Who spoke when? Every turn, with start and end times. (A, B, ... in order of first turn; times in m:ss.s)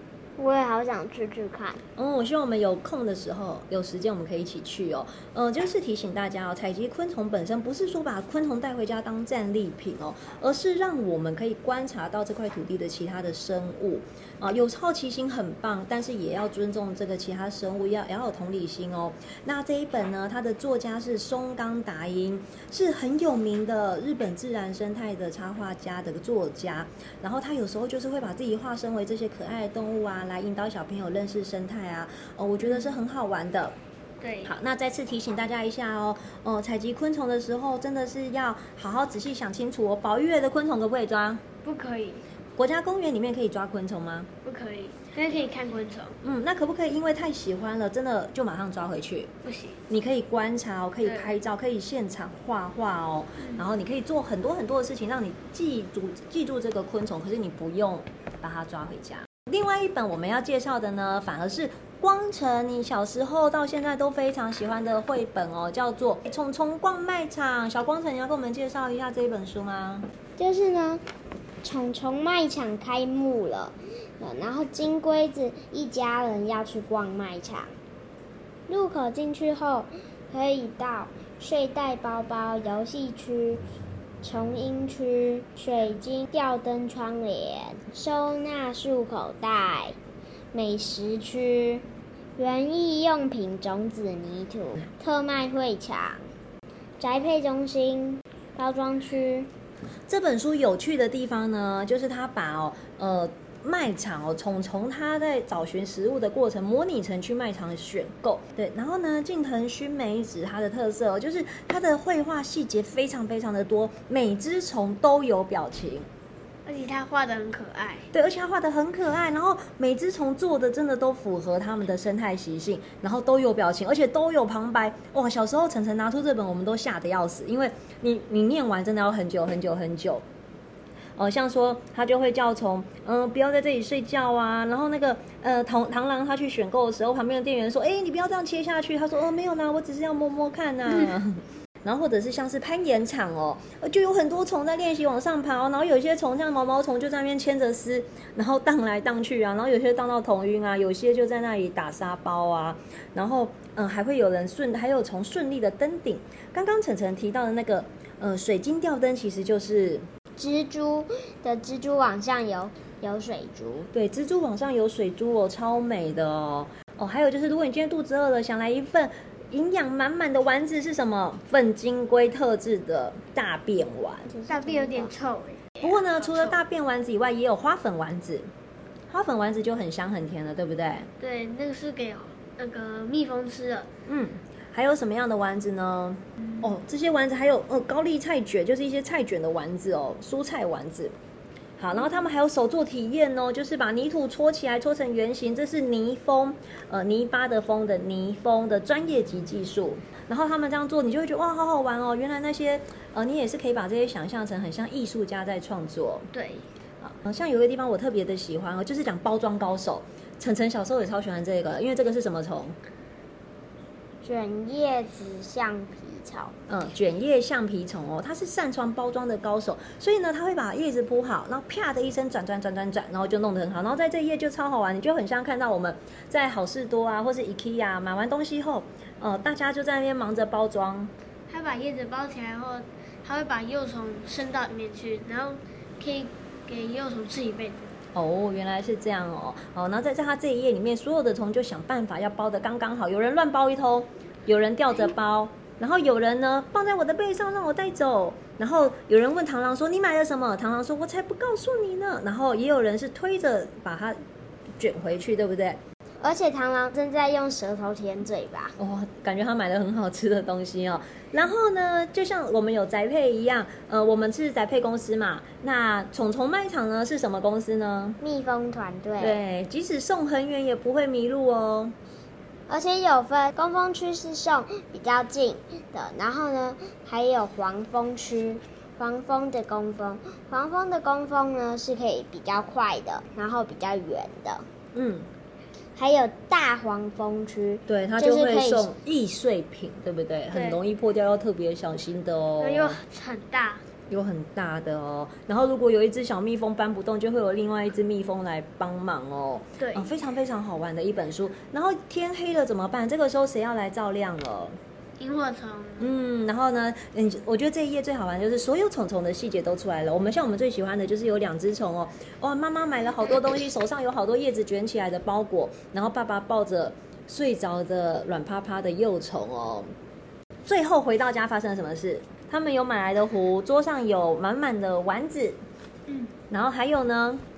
0:00.4-0:01.8 A
0:02.0-0:33.7 B
0:32.6-0:32.9 C
0:34.2-0:34.5 C
0:34.4-0:41.4 B
0:41.6-0:42.2 C
0:42.6-0:44.3 B
0:44.4-0:46.2 C
0:46.2-0:49.3 B
0:49.4-0:49.8 C
0:49.9-1:10.1 B
0:51.0-0:51.3 C
0:53.4-0:53.7 C
1:10.4-1:11.0 A
1:11.6-1:17.7 A
1:18.7-1:23.6 A
1:24.2-1:30.0 A
1:30.5-1:31.8 A
1:32.4-1:36.2 A
1:37.0-1:39.5 A
1:40.1-1:56.1 B
1:56.6-1:58.0 C
1:58.1-2:10.2 B
2:11.2-2:40.0 B
2:40.4-2:43.9 A
2:43.9-2:54.3 B
2:54.3-2:55.1 A
2:54.5-2:56.6 C
2:55.8-2:58.5 B
2:59.1-3:01.1 B
3:01.2-3:03.9 C
3:04.0-3:11.1 B
3:11.8-3:26.3 B
3:26.3-3:26.7 C
3:27.0-3:32.8 B
3:34.2-3:36.5 A
3:36.7-3:51.1 B
3:51.5-3:57.9 C
3:58.1-4:14.2 B
4:14.8-4:15.8 B
4:16.2-4:18.8 A
4:18.8-4:28.2 B
4:28.2-4:29.4 A
4:29.2-4:31.9 B
4:32.7-4:44.6 A
4:44.9-4:45.3 B
4:46.0-4:48.9 A
4:47.9-4:53.0 B
4:50.5-4:50.8 C
4:52.6-4:53.8 C
4:54.1-5:04.8 B
4:59.8-5:00.2 C
5:05.2-5:06.1 C
5:06.0-5:19.9 B
5:20.6-5:25.6 B
5:26.5-5:27.4 B